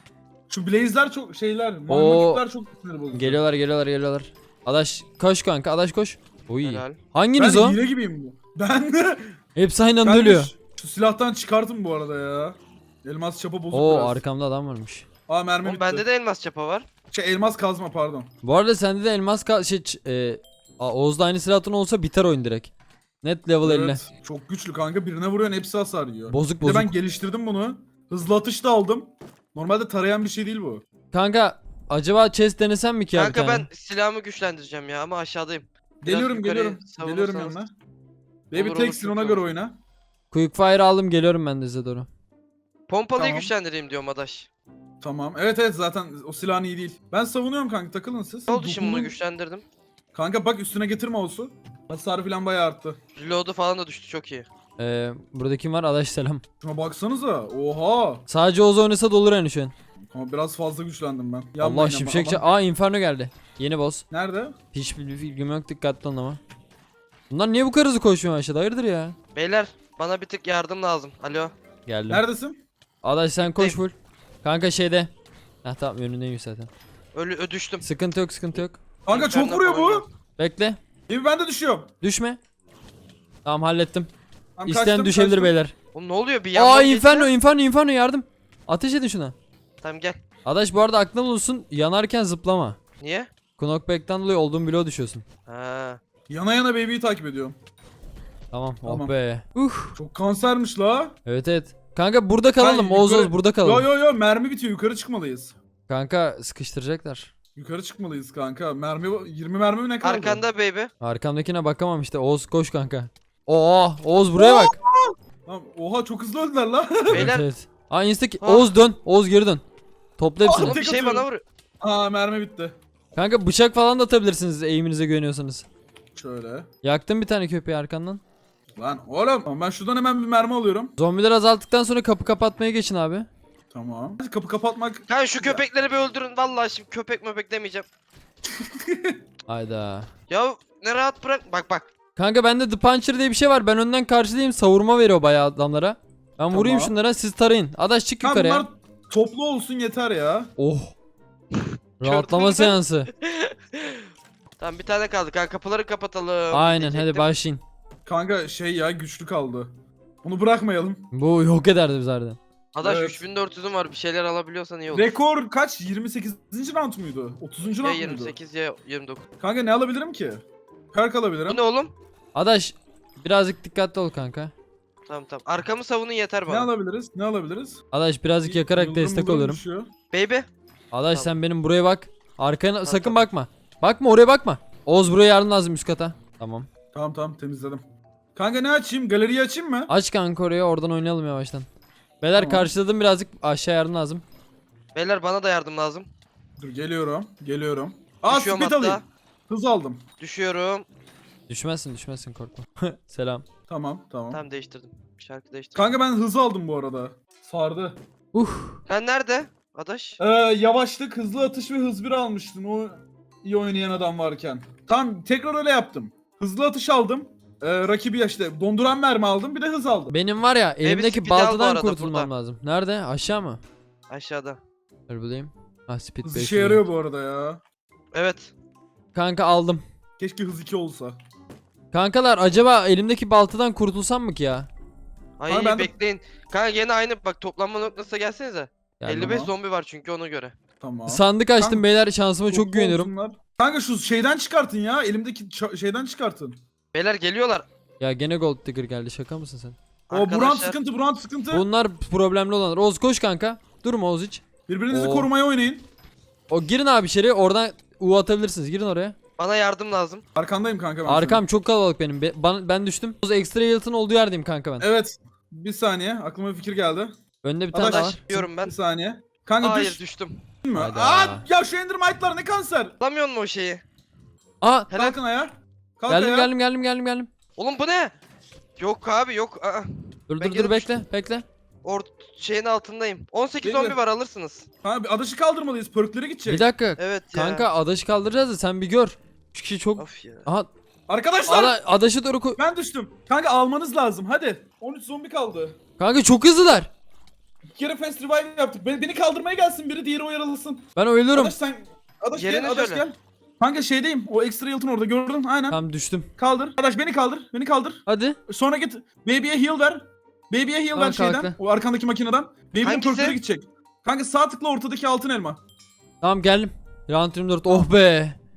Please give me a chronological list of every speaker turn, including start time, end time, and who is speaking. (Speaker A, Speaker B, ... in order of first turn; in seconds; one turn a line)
Speaker A: 0.5-3.4
Speaker B: 1.9-2.4
Speaker B: 3.1-7.8
Speaker C: 6.6-7.0
Speaker A: 7.4-9.4
Speaker B: 9.6-10.5
Speaker A: 10.0-14.2
Speaker B: 13.7-15.1
Speaker A: 15.3-16.1
Speaker C: 15.6-16.9
Speaker A: 17.1-18.3
Speaker B: 18.4-24.0
Speaker A: 23.6-30.8
Speaker B: 26.3-26.9
Speaker B: 31.1-33.7
Speaker C: 33.1-37.6
Speaker A: 36.0-37.7
Speaker A: 38.5-39.8
Speaker C: 38.5-39.5
Speaker B: 40.3-42.1
Speaker C: 42.9-44.5
Speaker A: 43.2-43.5
Speaker A: 45.0-49.1
Speaker C: 48.5-49.6
Speaker A: 50.1-53.0
Speaker C: 53.2-54.5
Speaker B: 54.8-56.4
Speaker A: 56.6-58.2
Speaker B: 58.3-59.7
Speaker A: 60.1-62.4
Speaker B: 61.6-64.0
Speaker A: 64.1-64.5
Speaker B: 64.7-66.4
Speaker B: 67.3-69.2
Speaker C: 69.3-71.5
Speaker B: 71.9-72.2
Speaker A: 72.1-72.6
Speaker B: 73.0-75.1
Speaker C: 73.5-73.8
Speaker B: 75.6-76.7
Speaker C: 77.1-77.9
Speaker B: 77.8-78.8
Speaker A: 79.0-80.0
Speaker C: 79.1-80.1
Speaker B: 80.4-80.8
Speaker A: 81.1-81.9
Speaker B: 82.0-82.4
Speaker B: 83.5-84.1
Speaker A: 84.6-85.5
Speaker B: 84.7-85.7
Speaker C: 85.9-87.3
Speaker B: 86.5-89.3
Speaker C: 89.8-90.2
Speaker B: 90.5-92.8
Speaker C: 93.0-93.3
Speaker B: 93.6-95.2
Speaker C: 95.5-96.0
Speaker A: 96.3-97.6
Speaker B: 98.5-100.0
Speaker A: 98.8-99.1
Speaker A: 100.0-101.2
Speaker B: 101.3-103.9
Speaker A: 102.6-105.5
Speaker B: 105.9-107.3
Speaker A: 107.6-110.4
Speaker C: 110.0-110.9
Speaker B: 111.0-114.8
Speaker A: 114.4-117.3
Speaker C: 117.1-117.5
Speaker B: 117.1-119.6
Speaker C: 118.4-118.7
Speaker B: 120.2-120.8
Speaker A: 120.4-121.3
Speaker C: 120.5-121.4
Speaker A: 121.8-122.8
Speaker B: 123.2-125.7
Speaker A: 126.2-126.7
Speaker B: 126.8-128.2
Speaker A: 128.8-130.9
Speaker B: 131.0-133.3
Speaker A: 133.7-135.6
Speaker C: 135.1-137.9
Speaker A: 138.5-139.2
Speaker B: 139.5-140.1
Speaker C: 140.3-141.9
Speaker B: 142.2-148.7
Speaker A: 146.5-146.9
Speaker A: 148.2-150.5
Speaker B: 150.6-150.9
Speaker C: 151.5-154.1
Speaker B: 152.0-153.1
Speaker C: 154.6-157.3
Speaker B: 156.5-157.6
Speaker A: 158.1-161.1
Speaker B: 161.1-162.4
Speaker C: 162.8-165.2
Speaker A: 162.8-163.2
Speaker A: 164.9-168.4
Speaker C: 167.8-169.2
Speaker A: 169.4-171.6
Speaker C: 171.5-171.9
Speaker B: 172.3-174.5
Speaker C: 175.1-176.7
Speaker A: 176.5-177.8
Speaker B: 177.9-179.6
Speaker A: 178.4-179.9
Speaker C: 180.1-180.5
Speaker B: 180.9-186.7
Speaker C: 182.8-183.2
Speaker A: 186.9-187.8
Speaker A: 188.4-189.9
Speaker B: 189.9-191.7
Speaker B: 192.2-194.2
Speaker A: 192.3-192.7
Speaker C: 194.9-196.1
Speaker A: 196.6-200.0
Speaker C: 198.3-199.0
Speaker C: 200.2-200.9
Speaker B: 201.5-203.4
Speaker A: 203.7-204.4
Speaker C: 204.3-205.9
Speaker A: 205.8-208.0
Speaker B: 208.3-208.8
Speaker C: 208.9-210.2
Speaker A: 210.2-220.2
Speaker B: 220.1-223.6
Speaker C: 220.8-222.3
Speaker C: 224.1-224.6
Speaker B: 225.1-226.8
Speaker A: 226.2-227.6
Speaker C: 228.1-228.5
Speaker B: 229.1-229.8
Speaker A: 230.2-231.2
Speaker B: 231.9-234.7
Speaker C: 235.4-240.5
Speaker A: 235.5-235.9
Speaker B: 239.0-239.5
Speaker A: 239.2-239.5
Speaker A: 240.8-241.9
Speaker B: 241.1-243.1
Speaker A: 242.5-246.6
Speaker C: 246.9-247.7
Speaker B: 248.0-249.8
Speaker C: 250.1-250.8
Speaker A: 250.1-251.7
Speaker B: 251.5-255.3
Speaker A: 254.7-255.9
Speaker B: 256.5-259.1
Speaker C: 259.4-260.2
Speaker A: 260.4-261.4
Speaker B: 261.1-264.9
Speaker A: 264.8-267.1
Speaker B: 267.4-268.2
Speaker A: 267.7-270.0
Speaker C: 267.8-268.8
Speaker C: 269.6-270.4
Speaker A: 270.6-272.9
Speaker B: 270.7-271.5
Speaker C: 273.0-273.8
Speaker B: 274.6-275.0
Speaker A: 274.9-276.5
Speaker B: 276.1-277.3
Speaker C: 277.6-278.1
Speaker C: 278.8-280.9
Speaker B: 280.3-281.4
Speaker C: 281.8-284.7
Speaker A: 283.6-284.0
Speaker A: 284.8-286.7
Speaker B: 286.5-290.7
Speaker C: 287.0-287.7
Speaker C: 290.0-290.5
Speaker A: 291.1-291.8
Speaker B: 291.4-292.6
Speaker A: 292.6-295.8
Speaker B: 296.0-296.9
Speaker A: 297.7-305.8
Speaker B: 301.0-301.6
Speaker C: 302.3-303.0
Speaker B: 305.7-306.3
Speaker A: 306.4-315.6
Speaker B: 308.1-308.4
Speaker B: 310.9-311.6
Speaker C: 312.8-313.4
Speaker B: 316.2-318.4